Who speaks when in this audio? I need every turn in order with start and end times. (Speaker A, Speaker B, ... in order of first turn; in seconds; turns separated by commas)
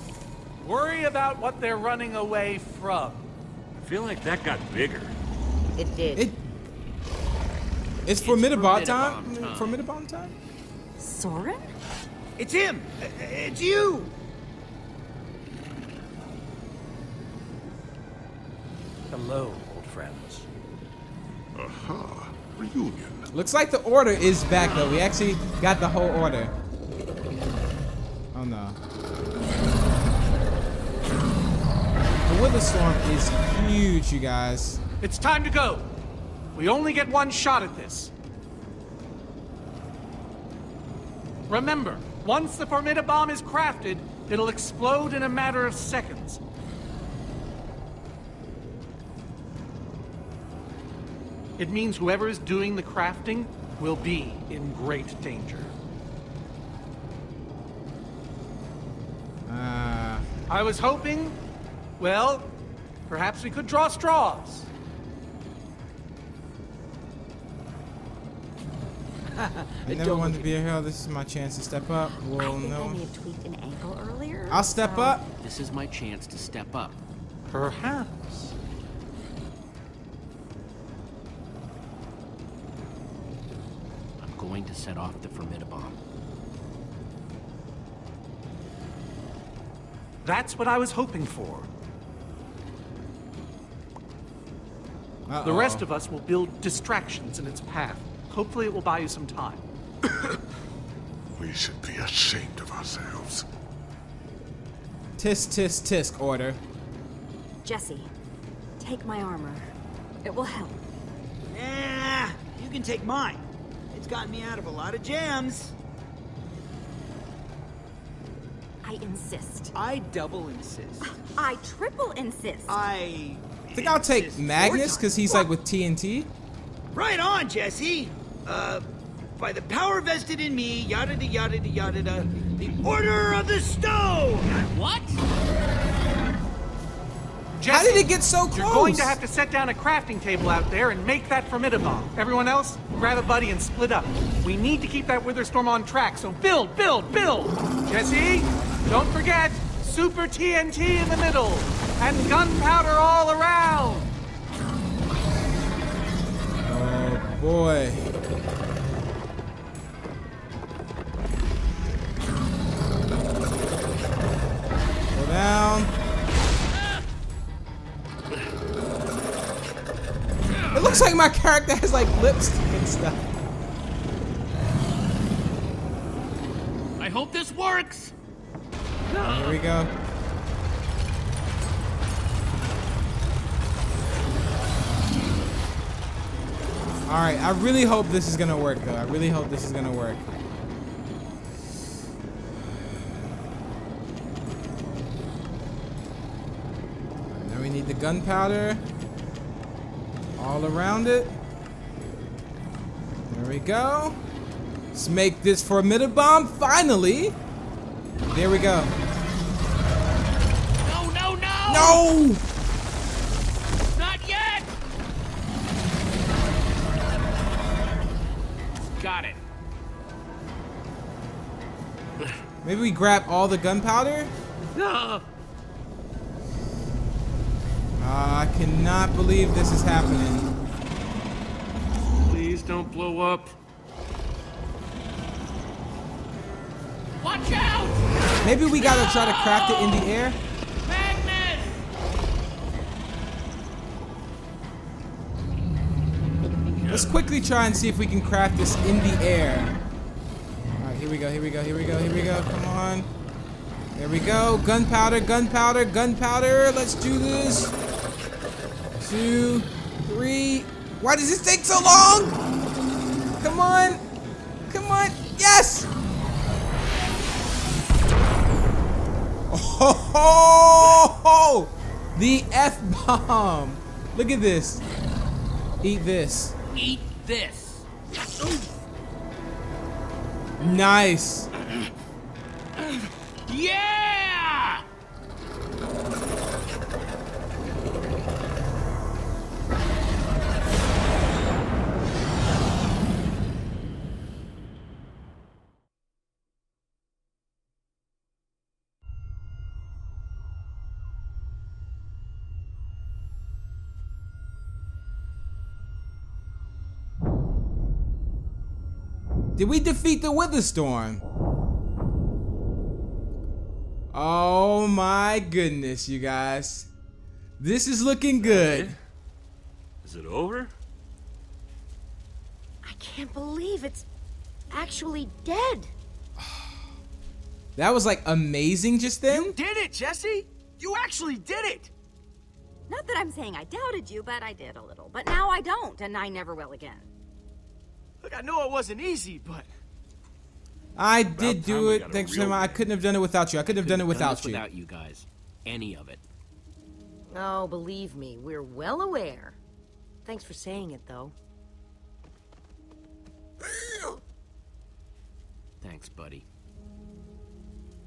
Speaker A: 0.6-3.3, Speaker B: 3.8-5.2, Speaker C: 5.8-6.2, Speaker D: 6.2-6.5, Speaker D: 8.1-10.4, Speaker E: 8.1-9.8, Speaker F: 11.0-11.7, Speaker G: 12.4-14.1, Speaker A: 19.1-20.4, Speaker H: 21.5-23.2, Speaker D: 23.3-26.5, Speaker D: 28.3-28.8, Speaker D: 32.2-34.8, Speaker A: 35.0-35.9, Speaker A: 36.5-38.1, Speaker A: 41.5-46.4, Speaker A: 51.6-55.8, Speaker D: 59.5-60.3, Speaker A: 60.5-61.4, Speaker A: 62.0-62.5, Speaker A: 63.1-64.7, Speaker G: 69.4-70.4, Speaker D: 69.9-73.0, Speaker F: 72.0-75.2, Speaker D: 74.5-75.2, Speaker E: 75.4-77.0, Speaker A: 77.5-78.5, Speaker E: 84.2-86.0, Speaker A: 90.2-91.7, Speaker D: 95.3-95.8, Speaker A: 95.4-99.6, Speaker H: 100.1-100.4, Speaker H: 101.4-103.5, Speaker D: 105.2-106.6, Speaker F: 107.6-108.1, Speaker F: 108.8-109.7, Speaker F: 110.2-110.8, Speaker G: 111.5-115.7, Speaker F: 118.8-119.7, Speaker I: 119.8-120.6, Speaker G: 120.0-121.1, Speaker F: 121.0-122.8, Speaker G: 122.7-125.4, Speaker I: 123.0-123.4, Speaker D: 123.7-126.3, Speaker G: 126.9-134.5, Speaker E: 134.5-135.2, Speaker A: 137.6-154.1, Speaker D: 137.7-139.2, Speaker D: 156.7-158.1, Speaker D: 165.1-165.9, Speaker E: 170.5-171.0, Speaker D: 170.7-173.2, Speaker E: 177.0-178.1, Speaker E: 179.1-179.6, Speaker D: 179.2-179.9, Speaker D: 187.1-190.2, Speaker D: 197.3-198.8, Speaker D: 200.4-201.4, Speaker D: 203.2-204.2, Speaker D: 204.9-207.4, Speaker D: 208.3-208.9, Speaker E: 210.8-212.0, Speaker D: 211.7-212.4, Speaker E: 213.9-214.7, Speaker E: 218.9-219.4, Speaker D: 222.6-224.3, Speaker E: 224.7-225.2, Speaker D: 228.0-230.5, Speaker E: 232.2-233.6, Speaker E: 237.2-240.1, Speaker D: 238.4-240.4, Speaker E: 240.8-241.9, Speaker D: 246.9-249.7, Speaker D: 250.8-253.1, Speaker D: 253.9-257.7, Speaker D: 259.0-262.4, Speaker D: 263.4-264.0, Speaker D: 264.7-265.9, Speaker D: 269.5-274.8, Speaker D: 275.8-276.5, Speaker E: 276.7-278.7, Speaker D: 280.6-281.5, Speaker E: 282.8-284.9, Speaker D: 309.6-311.2, Speaker D: 314.1-316.9, Speaker D: 317.6-318.9, Speaker B: 318.4-319.0, Speaker B: 320.0-320.7, Speaker C: 322.8-324.1, Speaker C: 324.7-325.9, Speaker D: 326.4-326.7, Speaker D: 327.8-329.6, Speaker I: 329.3-331.9, Speaker F: 332.9-337.1, Speaker I: 338.2-339.7, Speaker D: 340.9-344.6, Speaker B: 341.3-342.9, Speaker E: 343.6-346.2, Speaker C: 347.3-349.6, Speaker C: 350.2-351.4, Speaker E: 355.8-356.4